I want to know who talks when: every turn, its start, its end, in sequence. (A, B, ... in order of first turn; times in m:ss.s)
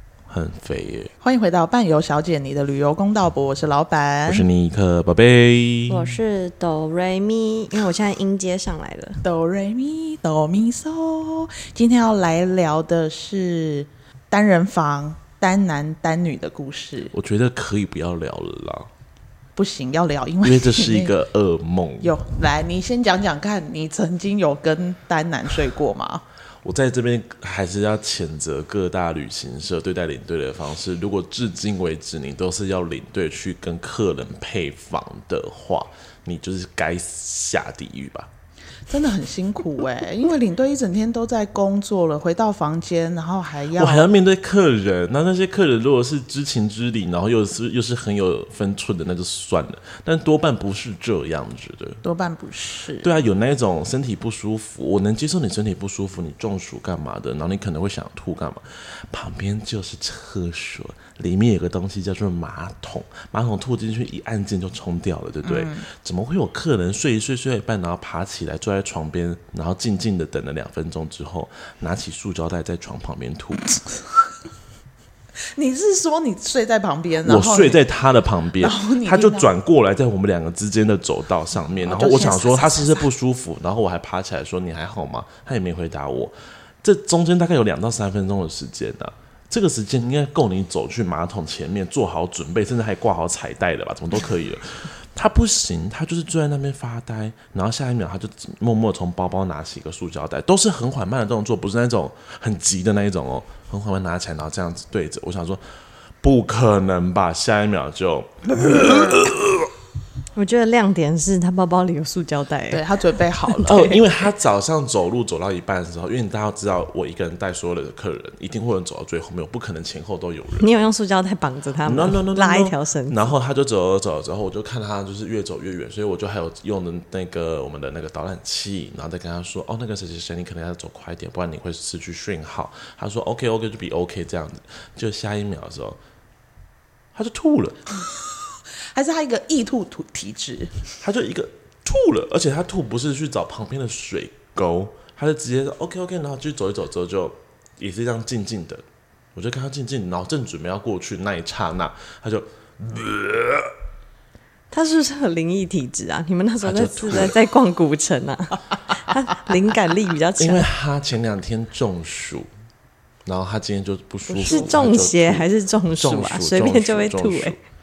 0:00.3-0:01.1 A
0:01.2-0:04.5 B
0:04.2-0:06.1 A
0:05.9-0:09.2 C
0:09.2-0:17.1 B
0:17.1-0:18.9 A
0:19.6-0:21.1 B
0:20.4-0:22.2 A
0:22.0-0:26.2 B
0:26.6-0:38.3 A
0:38.9-0:44.1 B
0:43.7-0:52.0 A
0:52.0-0:53.1 B
0:53.0-1:13.7 A
1:05.4-1:05.9 B
1:15.5-1:17.8 B
1:17.2-1:45.6 A
1:18.6-1:19.5 B
1:21.8-1:23.0 B
1:46.2-1:49.7 A
1:50.3-1:52.8 C
1:52.7-1:53.9 B
1:53.4-1:54.1 C
1:53.7-2:00.7 A
2:00.5-2:03.3 C
2:01.8-2:16.0 A
2:17.1-2:17.8 A
2:18.9-2:20.8 B
2:21.0-2:28.8 A
2:29.3-2:33.7 A
2:34.7-2:40.6 C
2:36.6-2:37.4 A
2:40.4-2:42.5 A
2:43.2-2:45.5 A
2:44.4-2:47.6 C
2:46.0-2:47.6 A